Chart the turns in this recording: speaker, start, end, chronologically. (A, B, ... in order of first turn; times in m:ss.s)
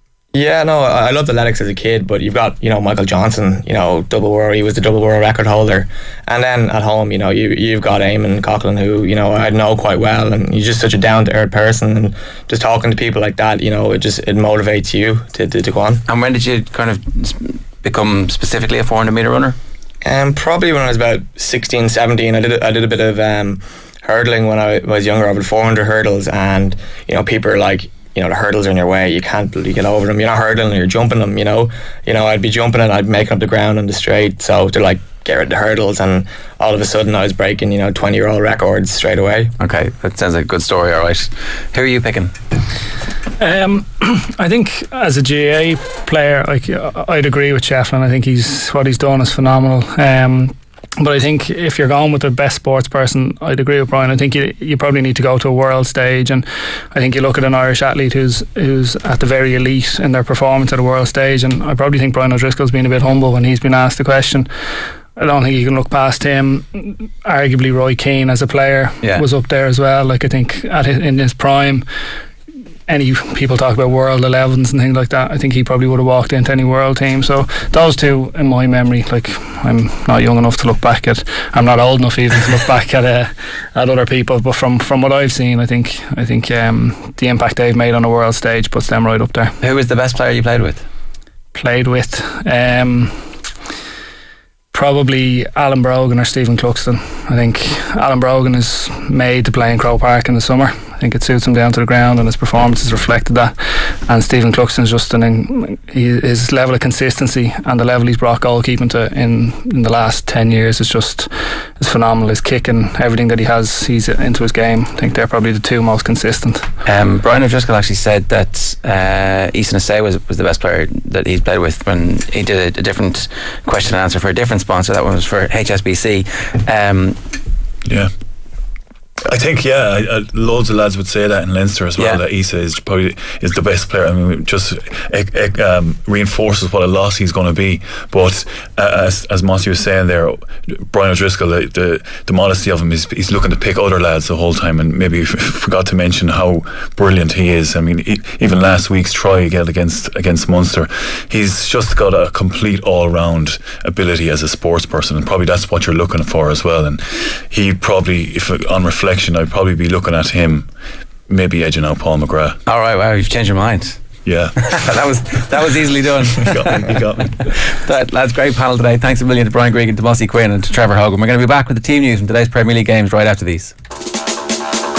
0:00.3-0:16.0 A
0:16.1-0:19.6 B
0:20.0-0:39.5 A
0:39.6-0:42.3 B
0:43.4-1:04.5 C
1:05.2-1:11.8 C
1:12.9-1:29.5 C
1:29.6-1:30.8 B
1:31.5-1:33.1 C
1:34.7-1:43.5 C
1:44.1-1:56.6 C
1:56.8-2:07.2 B
2:07.8-2:08.1 D
2:09.2-2:40.7 D
2:41.3-2:42.6 D
2:42.6-2:44.0 B
2:44.2-2:44.7 D
2:44.6-2:47.0 B
2:46.4-2:47.5 D
2:47.5-2:53.7 B